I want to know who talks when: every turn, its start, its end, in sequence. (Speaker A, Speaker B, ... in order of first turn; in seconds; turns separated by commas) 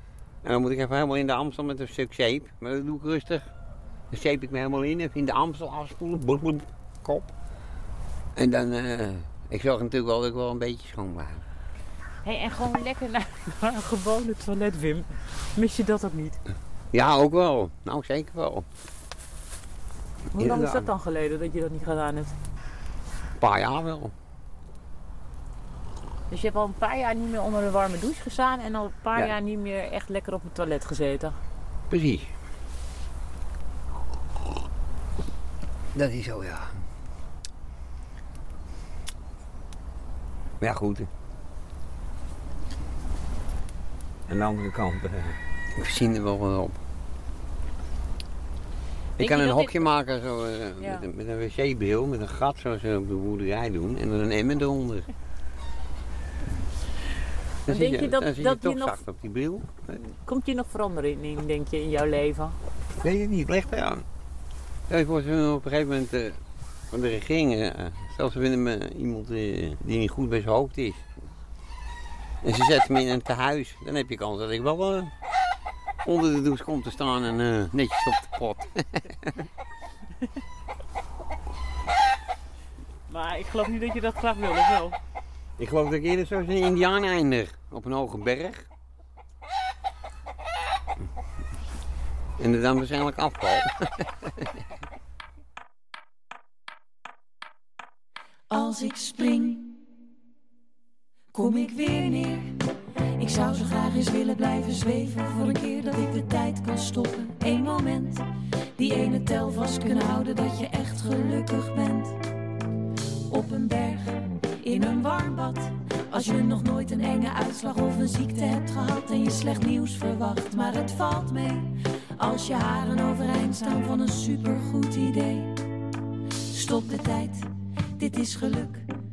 Speaker A: 0.4-3.5, Speaker A: 4.1-7.3, Speaker A: 8.4-11.4, Speaker B: 12.2-16.4, Speaker A: 16.9-18.7, Speaker B: 20.3-22.4, Speaker A: 20.4-20.9, Speaker A: 23.4-24.1, Speaker B: 26.3-31.4, Speaker A: 31.9-32.3, Speaker A: 36.0-36.7, Speaker A: 40.6-41.1, Speaker A: 44.3-46.8, Speaker B: 49.2-49.9, Speaker A: 49.2-55.1, Speaker B: 50.8-51.0, Speaker A: 57.7-59.9, Speaker B: 57.7-59.0, Speaker B: 60.0-62.6, Speaker A: 63.0-64.0, Speaker A: 64.9-66.4, Speaker A: 66.9-71.1, Speaker A: 72.4-75.1, Speaker A: 76.0-79.3, Speaker B: 83.1-85.0, Speaker A: 85.6-88.7, Speaker A: 92.4-94.1, Speaker C: 98.5-99.8, Speaker C: 101.3-102.6, Speaker C: 103.2-108.2, Speaker C: 108.8-112.2, Speaker C: 113.3-125.6, Speaker C: 126.5-128.9